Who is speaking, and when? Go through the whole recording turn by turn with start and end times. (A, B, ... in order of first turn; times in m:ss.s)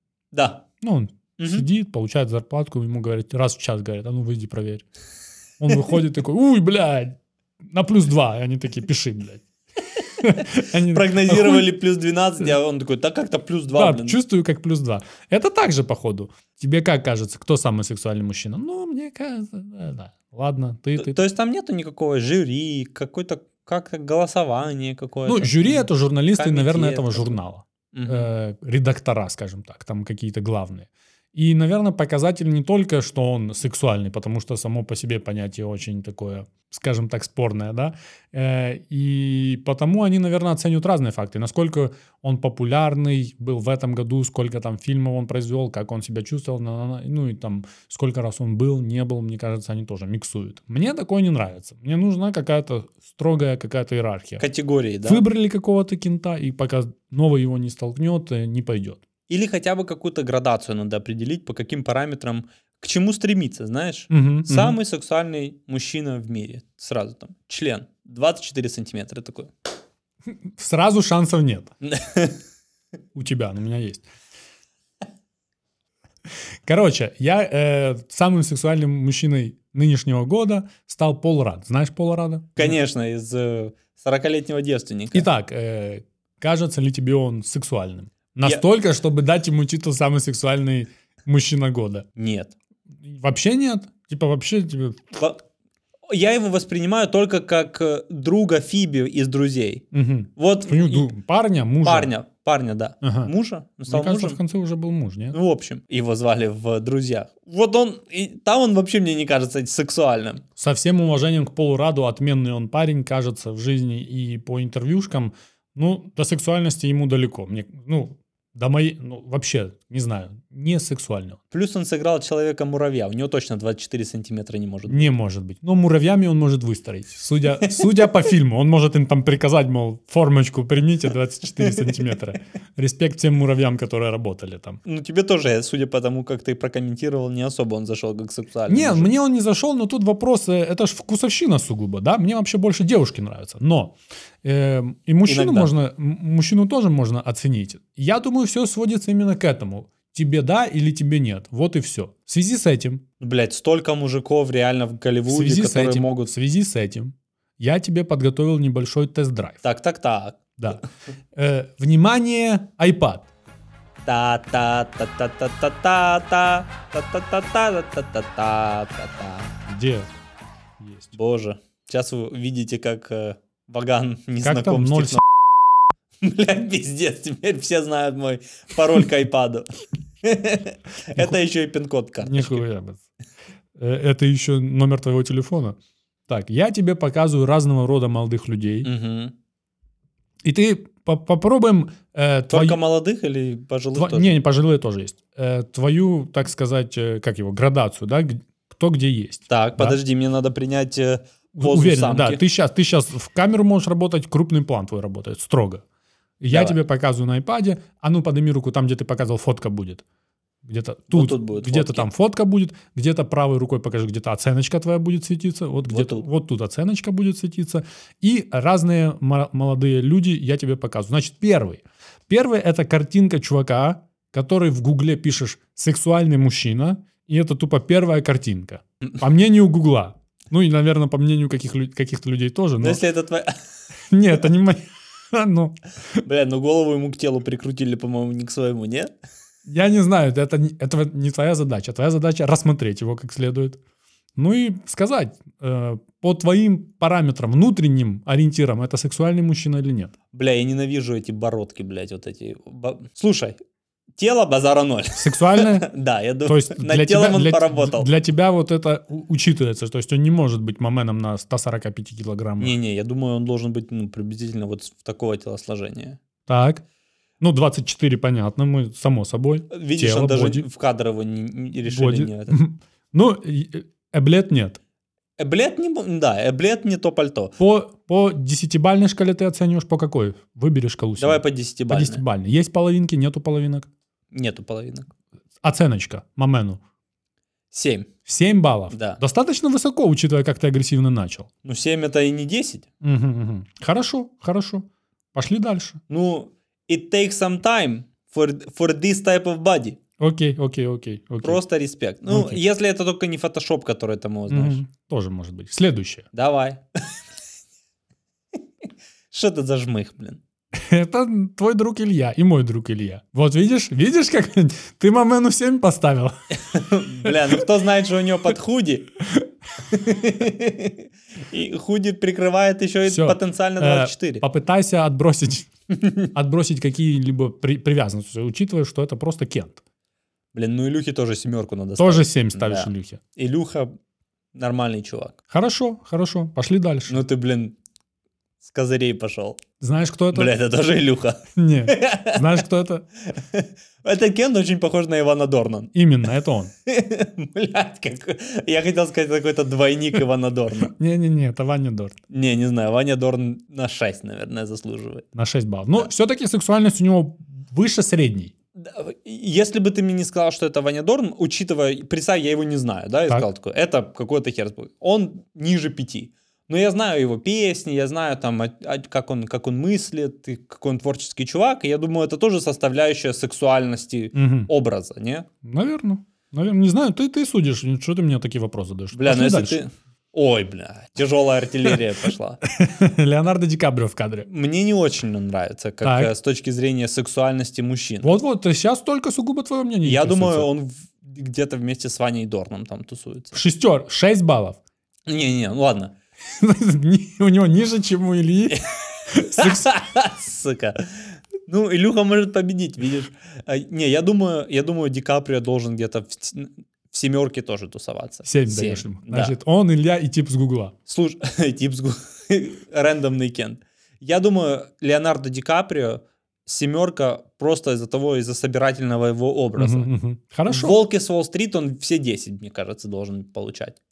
0:00.3-0:00.6 A
0:00.8-0:04.8 B
0:01.4-0:01.6 A
0:05.6-0:09.5 B
0:10.2-0:14.2 A
0:10.2-0:11.7 B
0:13.7-0:21.2 B
0:21.0-0:27.4 A
0:25.2-0:54.4 B
0:27.9-0:28.3 A
0:54.4-0:55.2 A
0:55.0-0:59.0 B
0:59.3-1:09.5 A
1:04.1-1:04.8 B
1:10.3-1:11.7 B
1:11.8-1:12.4 A
1:13.1-1:14.1 B
1:16.6-1:22.8 B
1:22.6-1:25.3 A
1:25.1-1:32.1 B
1:32.2-1:32.5 A
1:33.0-1:35.0 B
1:35.1-1:35.4 A
1:36.1-1:41.1 A
1:39.9-1:42.1 B
1:41.8-1:44.4 A
1:43.0-1:43.3 B
1:43.9-1:45.4 B
1:45.3-1:50.4 A
1:50.6-2:01.4 B
2:01.5-2:05.1 A
2:04.9-2:14.8 B
2:07.6-2:07.9 A
2:11.6-2:12.0 A
2:14.8-2:19.1 A
2:18.7-2:33.0 B
2:25.2-2:25.7 A
2:33.2-2:36.3 A
2:35.3-2:39.6 B
2:39.6-2:40.8 A
2:41.3-2:43.3 B
2:44.0-2:49.5 A
2:49.7-2:50.1 B
2:50.8-2:51.2 B
2:51.1-2:55.2 A
2:54.4-2:55.2 B
2:56.2-2:59.7 A
3:00.2-3:02.6 A
3:02.2-3:03.0 B
3:03.8-3:05.8 B
3:06.3-3:08.9 B
3:08.8-3:09.3 A
3:10.4-3:12.8 B
3:12.5-3:14.4 A
3:13.9-3:20.0 B
3:19.5-3:22.4 A
3:21.5-3:25.8 B
3:26.4-3:30.0 B
3:26.5-3:26.8 A
3:30.6-3:53.0 B
3:31.1-3:32.1 A
3:35.8-3:36.2 A
3:52.8-3:53.6 A
3:54.1-3:55.8 B
3:56.2-3:59.1 A
3:59.6-4:03.8 B
4:04.4-4:10.1 B
4:10.3-4:13.6 A
4:14.2-4:18.1 A
4:15.2-4:15.9 B
4:16.4-4:22.8 B
4:22.6-4:26.2 A
4:26.5-4:26.8 B
4:27.4-4:30.6 B
4:29.7-4:32.6 A
4:31.8-4:34.8 B
4:35.4-4:37.6 A
4:37.6-4:43.9 B
4:41.2-4:42.2 A
4:44.3-4:45.1 A
4:45.6-4:46.8 B
4:47.7-4:48.1 A
4:48.2-4:51.5 B
4:48.9-4:49.2 A
4:51.6-4:52.9 A
4:53.0-4:56.0 B
4:56.1-5:00.0 A
5:00.2-5:01.6 B
5:01.4-5:04.8 A
5:02.3-5:02.6 B
5:04.5-5:06.3 B
5:06.3-5:07.2 A
5:09.3-5:10.4 A
5:10.7-5:17.6 B
5:16.5-5:19.1 A
5:19.9-5:24.4 A
5:23.0-5:25.7 B
5:26.0-5:26.2 A
5:26.3-5:29.8 B
5:30.5-5:33.9 A
5:32.0-5:33.2 B
5:34.5-5:35.4 A
5:35.5-5:37.2 B
5:37.1-5:37.8 A
5:38.6-5:39.6 A
5:39.8-5:40.5 B
5:40.3-5:42.4 A
5:41.5-5:43.0 B
5:43.3-5:45.9 A
5:45.9-5:46.7 B
5:46.9-5:50.9 A
5:50.8-5:52.2 B
5:52.3-5:55.2 A
5:55.3-5:58.5 B
5:58.8-6:15.5 A
6:14.3-6:14.7 B
6:15.6-6:19.8 B
6:19.1-6:22.6 A
6:22.6-6:24.5 B
6:24.4-6:28.4 A
6:26.0-6:26.3 B
6:28.2-6:30.7 B
6:30.0-6:33.6 A
6:33.5-6:34.8 B
6:35.3-6:36.1 A
6:36.5-6:39.9 B
6:38.7-6:49.5 A
6:48.4-6:50.9 B
6:51.1-7:00.1 A
6:59.8-7:01.0 B
7:00.7-7:04.0 A